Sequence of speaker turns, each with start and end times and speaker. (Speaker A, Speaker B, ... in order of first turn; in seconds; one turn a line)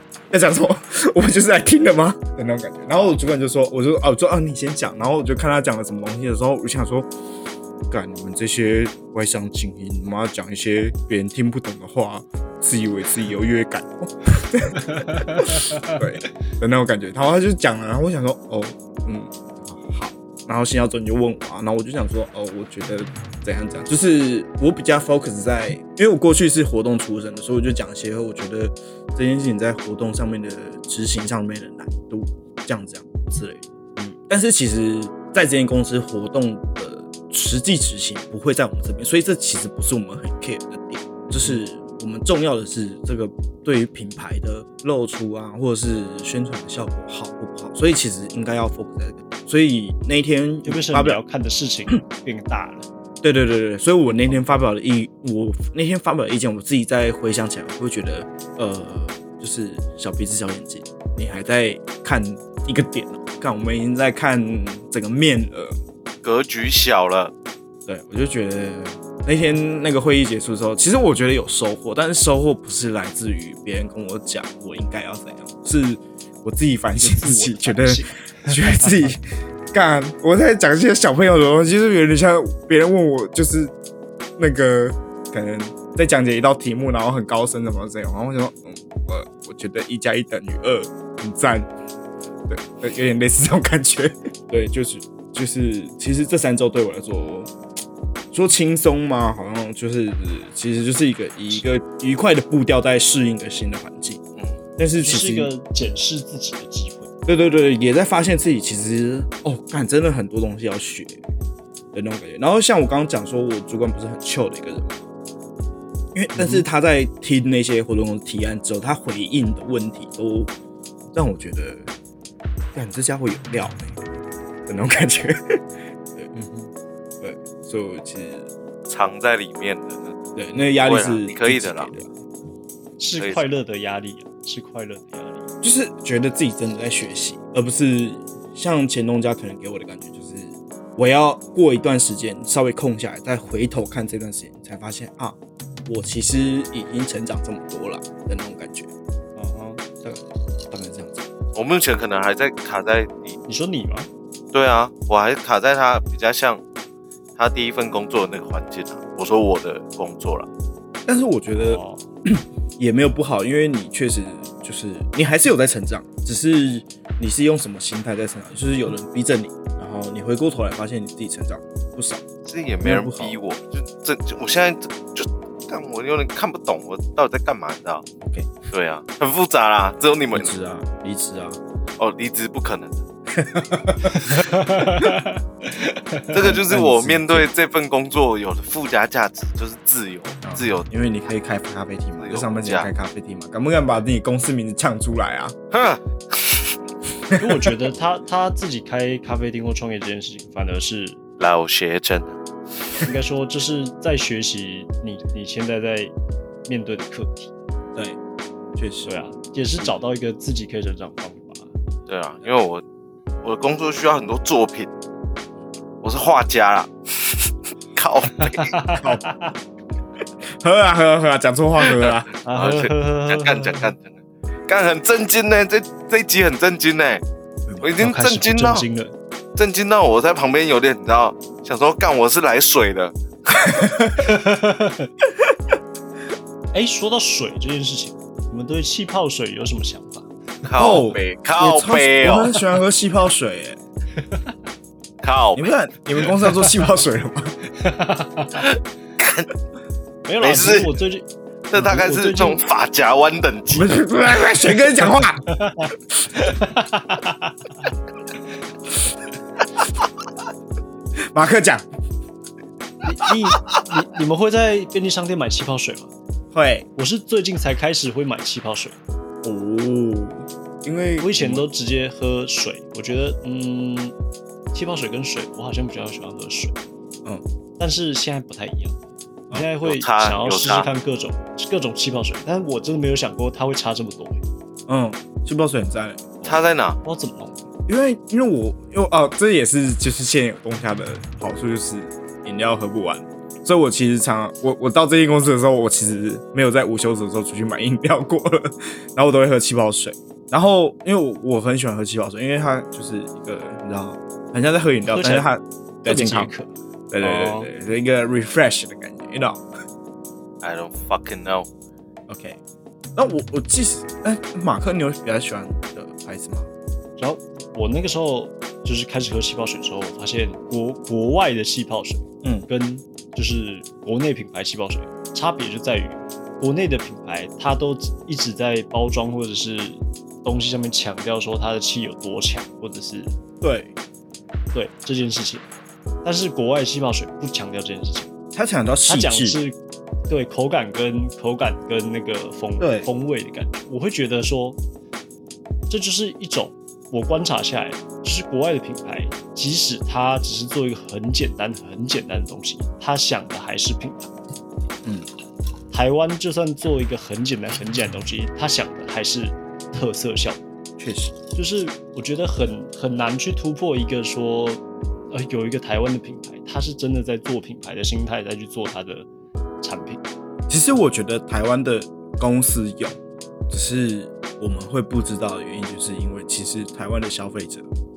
Speaker A: 0.3-7.1
Speaker A: 7.9-51.2
Speaker B: 14.9-16.0
Speaker B: 41.3-41.6
Speaker B: 50.6-52.9
Speaker A: 53.2-65.8
Speaker C: 66.2-67.3
Speaker A: 67.8-79.2
Speaker B: 77.0-79.1
Speaker A: 79.7-83.7
Speaker A: 84.4-91.7
Speaker A: 92.5-97.5
Speaker A: 98.3-104.2
Speaker A: 104.8-105.5
Speaker B: 105.0-107.1
Speaker A: 107.2-111.2
Speaker A: 111.9-115.0
Speaker A: 116.1-120.5
Speaker B: 116.3-116.7
Speaker A: 121.1-121.9
Speaker A: 122.7-124.0
Speaker A: 124.7-125.6
Speaker B: 126.3-126.7
Speaker A: 127.2-128.5
Speaker C: 128.9-130.2
Speaker A: 130.3-132.1
Speaker C: 130.8-131.9
Speaker B: 133.0-135.5
Speaker C: 133.1-133.4
Speaker A: 135.6-148.9
Speaker B: 149.3-149.8
Speaker A: 150.0-151.3
Speaker C: 151.5-153.4
Speaker B: 153.5-154.1
Speaker C: 154.5-156.6
Speaker C: 157.4-160.5
Speaker A: 161.1-172.2
Speaker B: 161.6-162.1
Speaker C: 172.4-178.0
Speaker A: 172.8-173.4
Speaker A: 178.2-178.5
Speaker C: 178.7-180.5
Speaker A: 180.3-181.6
Speaker C: 182.0-183.0
Speaker A: 183.3-185.1
Speaker B: 184.1-186.3
Speaker C: 186.3-190.8
Speaker A: 186.4-187.5
Speaker A: 190.4-195.6
Speaker C: 192.2-192.9
Speaker C: 195.7-196.7
Speaker B: 197.3-201.2
Speaker C: 201.4-202.4
Speaker B: 203.0-206.1
Speaker B: 206.7-207.5
Speaker A: 208.8-209.1
Speaker B: 209.1-211.7
Speaker C: 212.1-212.8
Speaker C: 213.4-214.9
Speaker C: 216.0-218.7
Speaker B: 218.4-219.5
Speaker A: 220.6-222.3
Speaker C: 221.8-227.2
Speaker B: 222.4-223.9
Speaker C: 227.8-228.8
Speaker B: 228.0-229.1
Speaker C: 229.6-233.7
Speaker A: 233.7-234.3
Speaker B: 234.2-235.1
Speaker B: 236.7-240.3
Speaker C: 240.7-242.6
Speaker A: 240.8-243.8
Speaker B: 244.2-244.5
Speaker C: 245.2-245.7
Speaker A: 245.5-247.5
Speaker B: 247.8-248.7
Speaker C: 248.6-249.5
Speaker B: 250.2-252.6
Speaker C: 250.4-251.0
Speaker C: 251.7-253.9
Speaker A: 253.7-255.4
Speaker B: 255.5-257.6
Speaker A: 261.3-261.9
Speaker B: 263.0-266.1
Speaker A: 266.5-266.9
Speaker B: 266.9-269.0
Speaker A: 269.4-271.6
Speaker B: 271.2-274.1
Speaker B: 274.7-276.8
Speaker B: 277.8-278.9
Speaker B: 279.5-284.4
Speaker C: 279.8-280.9
Speaker A: 284.9-286.4
Speaker C: 286.4-287.0
Speaker B: 287.0-287.7
Speaker A: 287.9-306.5
Speaker B: 305.1-305.5
Speaker B: 306.0-307.7
Speaker A: 307.1-309.6
Speaker C: 310.6-311.7
Speaker A: 312.3-312.6
Speaker A: 313.1-316.7
Speaker B: 317.2-333.4
Speaker A: 333.6-333.9
Speaker B: 334.7-335.7
Speaker B: 336.2-338.3
Speaker A: 338.5-339.6
Speaker B: 339.1-339.8
Speaker B: 340.3-344.8
Speaker A: 342.8-343.1
Speaker B: 345.9-354.3
Speaker B: 355.9-360.6
Speaker A: 361.0-361.3
Speaker B: 361.5-369.3
Speaker B: 369.8-370.2
Speaker A: 370.7-373.2
Speaker A: 373.7-377.9